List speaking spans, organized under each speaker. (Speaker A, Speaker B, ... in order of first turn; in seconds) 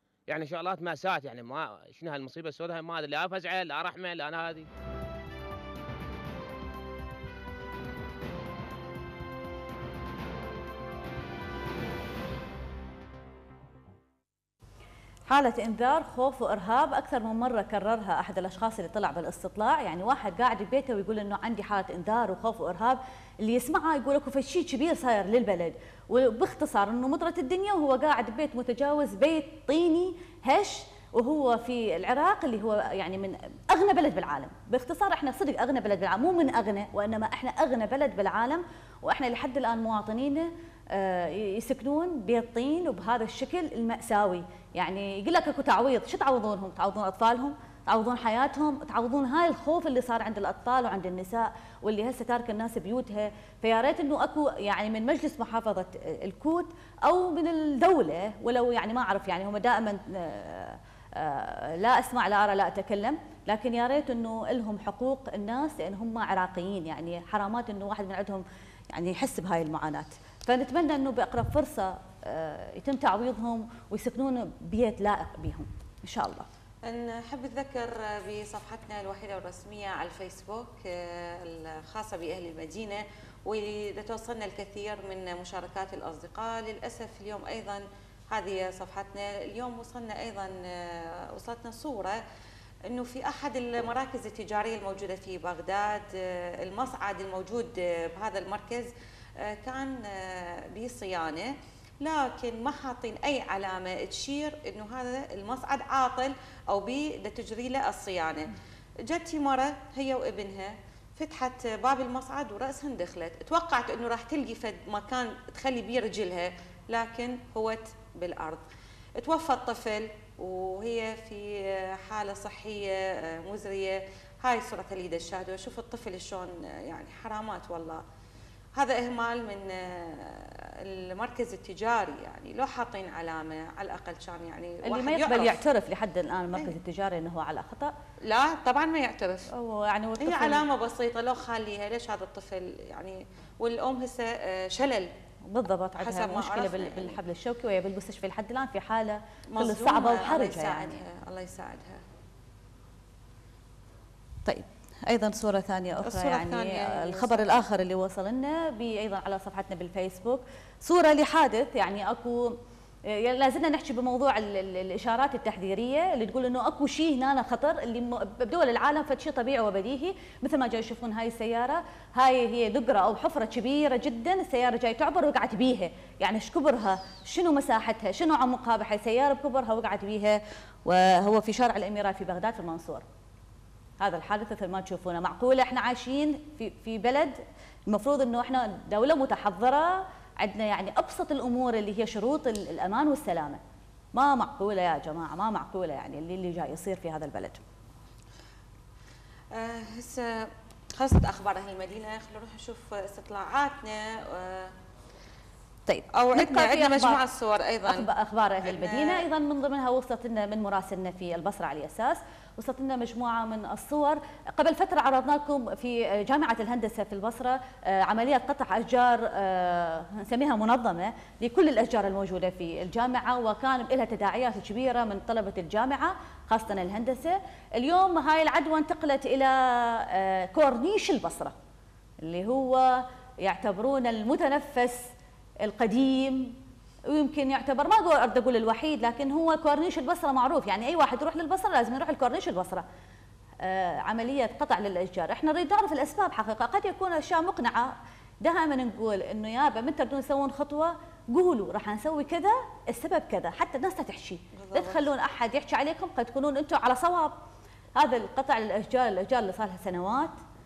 Speaker A: 0.3-4.7
Speaker B: 15.3-76.5, 134.8-137.9, 139.5-140.6, 145.5-151.0, 154.4-162.6, 163.1-183.0, 184.0-193.6, 194.1-197.6, 205.9-207.2, 207.9-231.5, 232.2-235.1, 235.6-236.6, 237.1-242.8, 243.6-257.3, 257.9-260.3
Speaker C: 76.8-92.2, 92.9-98.9, 99.4-108.5, 109.0-118.6, 119.2-128.0, 128.8-135.6, 138.2-139.5, 140.2-145.1, 146.0-147.2, 149.5-152.0, 156.0-157.4, 199.5-204.7, 206.2-208.1, 208.6-209.2, 254.5-255.1